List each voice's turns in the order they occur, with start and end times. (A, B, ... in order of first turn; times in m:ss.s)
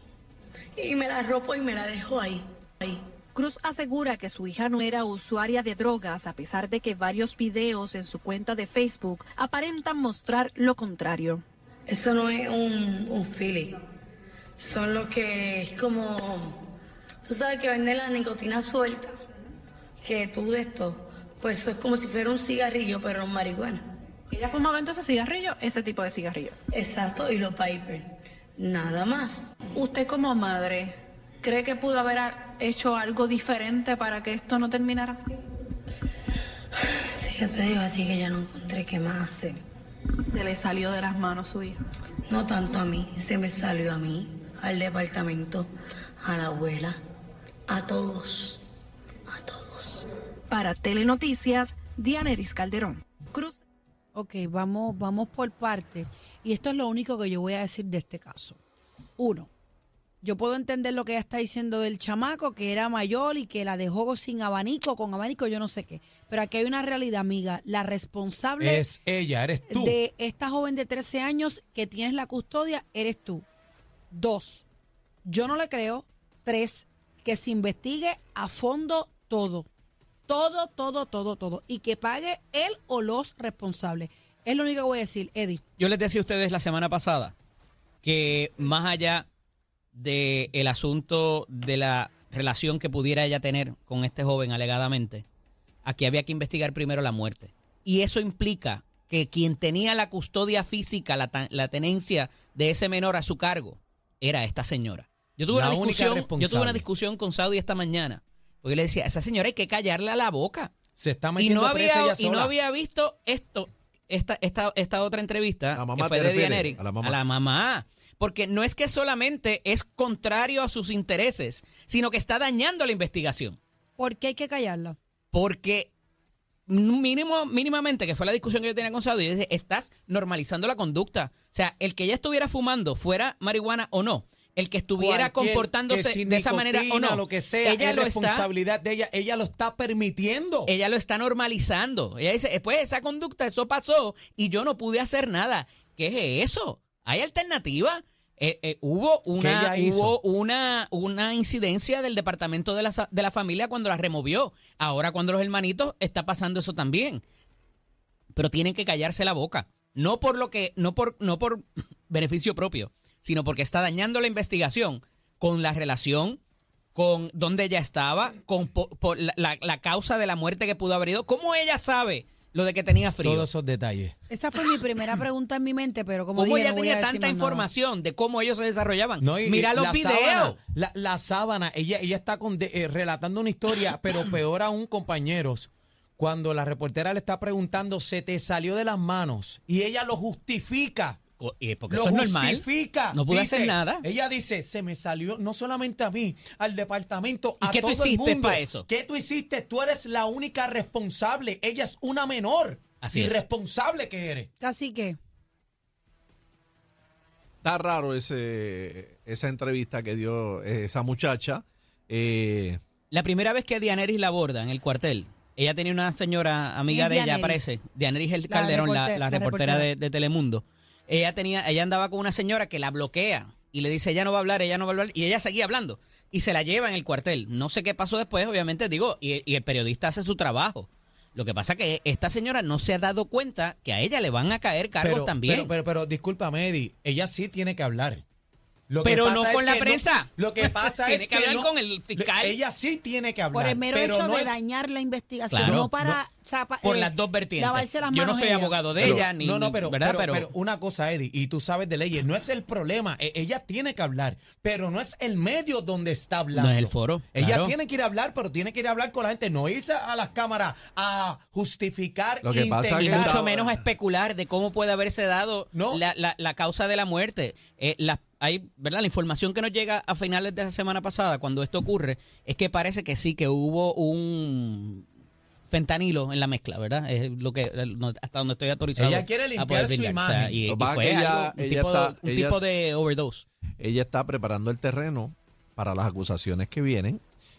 0:00.8-0:03.0 A
0:03.3-0:11.4 B
0:11.9-0:13.8 A
0:14.6-0:16.6 A
0:17.2-0:19.1 A
0:20.0-0:23.8 A
0:24.3-0:26.1 C
0:25.2-0:26.5 B
0:26.7-0:28.1 A
0:28.6-0:29.5 A
0:29.7-0:35.4 C
0:37.1-0:39.6 A
0:40.2-0:41.8 C
0:42.3-0:45.7 A
0:46.2-0:47.0 A
0:47.7-0:48.6 A
0:49.3-0:50.1 A
0:50.5-0:53.6 B
0:54.1-0:58.6 D
0:59.2-0:59.5 D
1:00.2-1:08.8 D
1:08.6-1:10.0 E
1:09.7-1:13.4 D
1:14.1-1:14.6 D
1:15.2-1:19.7 D
1:20.3-1:25.6 D
1:25.8-1:27.3 F
1:28.0-1:29.3 F
1:29.9-1:35.2 F
1:35.8-1:50.7 F
1:45.5-1:46.8 E
1:51.0-1:52.5 E
1:51.4-2:03.6 F
1:55.8-1:57.2 G
2:04.0-2:05.0 D
2:05.3-2:05.9 F
2:06.7-2:18.5 F
2:15.0-2:20.7 E
2:20.6-2:37.2 F
2:29.4-2:30.2 E
2:38.3-2:46.4 F
2:46.9-2:53.5 F
2:53.2-2:54.1 E
2:54.3-2:57.7 D
2:56.3-3:00.6 F
2:59.2-3:11.2 E
3:11.4-3:14.0 F
3:11.9-3:24.5 E
3:17.6-3:18.9 F
3:23.0-3:23.4 F
3:24.6-3:25.2 D
3:27.6-3:32.8 G
3:33.1-3:55.7 F
3:36.9-3:37.7 D
3:38.5-3:39.9 D
3:55.0-3:58.2 E
3:58.9-4:04.6 E
3:59.0-4:02.6 F
4:03.5-4:08.9 D
4:05.5-4:05.9 F
4:05.6-4:06.2 E
4:06.8-4:10.5 F
4:08.9-4:23.5 E
4:16.5-4:17.7 F
4:22.4-4:23.7 G
4:23.0-4:35.0 F
4:25.7-4:26.0 E
4:35.7-4:43.4 F
4:39.0-4:40.6 E
4:40.6-4:42.6 G
4:43.8-4:47.2 G